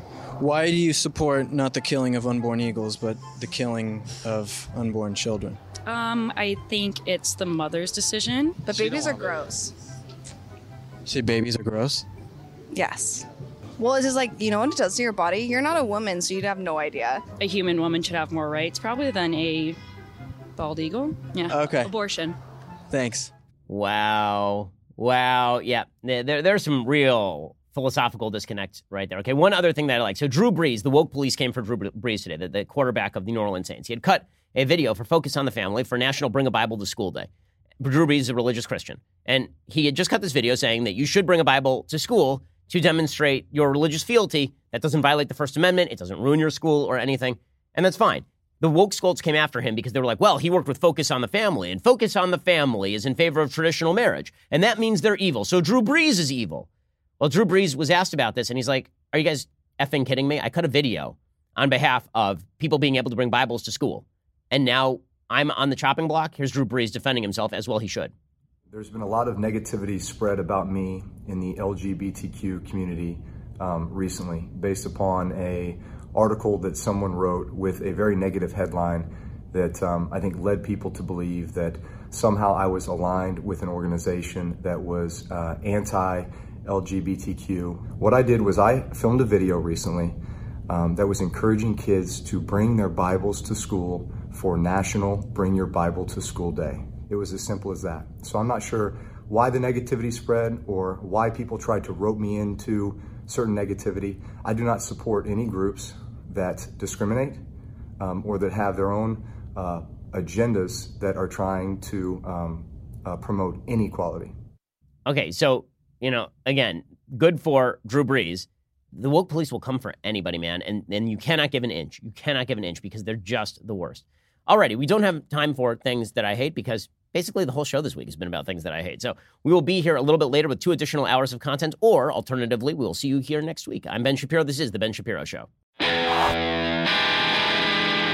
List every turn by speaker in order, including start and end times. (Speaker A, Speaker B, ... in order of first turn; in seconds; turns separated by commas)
Speaker A: 0.4-5.6, Speaker B: 5.8-9.3, Speaker C: 8.6-9.7, Speaker A: 11.1-12.0, Speaker C: 12.7-13.2, Speaker C: 13.8-17.2, Speaker B: 17.4-19.8, Speaker B: 20.6-22.4, Speaker A: 21.5-21.9, Speaker A: 22.9-23.3, Speaker D: 23.7-37.3, Speaker D: 37.8-56.7, Speaker D: 57.2-68.1, Speaker E: 68.7-90.2, Speaker E: 90.7-107.4, Speaker E: 108.0-114.3, Speaker D: 115.0-135.5